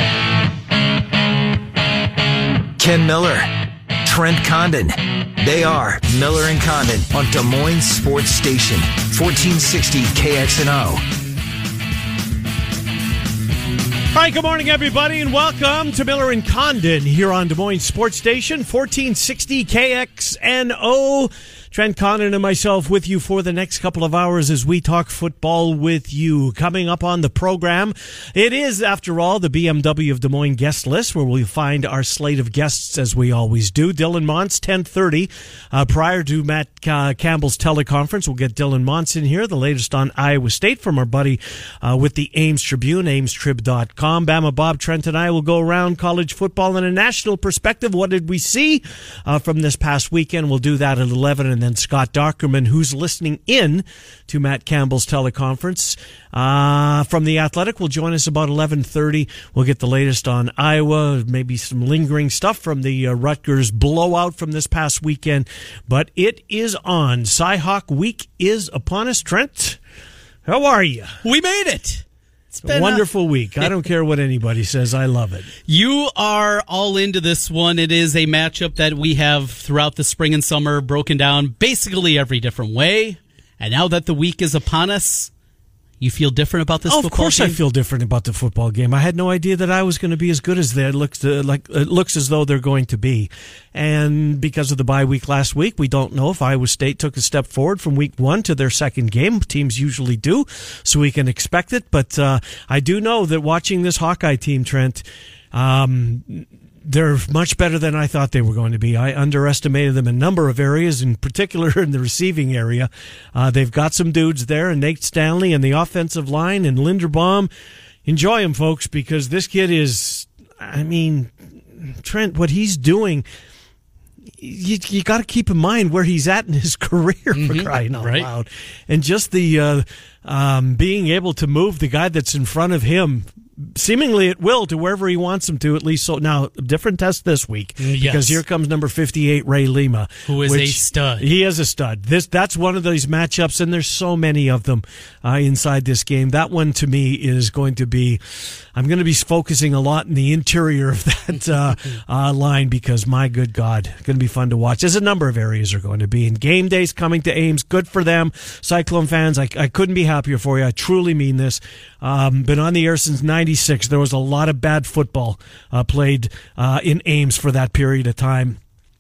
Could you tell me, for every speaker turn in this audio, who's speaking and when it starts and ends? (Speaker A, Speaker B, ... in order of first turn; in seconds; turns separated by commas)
Speaker A: 2.8-3.5, Speaker A: 4.0-11.0, Speaker B: 14.1-69.8, Speaker B: 70.5-71.2, Speaker C: 71.2-73.0, Speaker B: 72.6-75.5, Speaker C: 73.6-73.8, Speaker C: 75.7-85.3, Speaker C: 86.0-87.6, Speaker B: 86.9-117.5, Speaker B: 118.0-123.2, Speaker B: 124.4-168.6, Speaker C: 127.3-128.3, Speaker C: 137.8-138.4, Speaker C: 140.3-141.3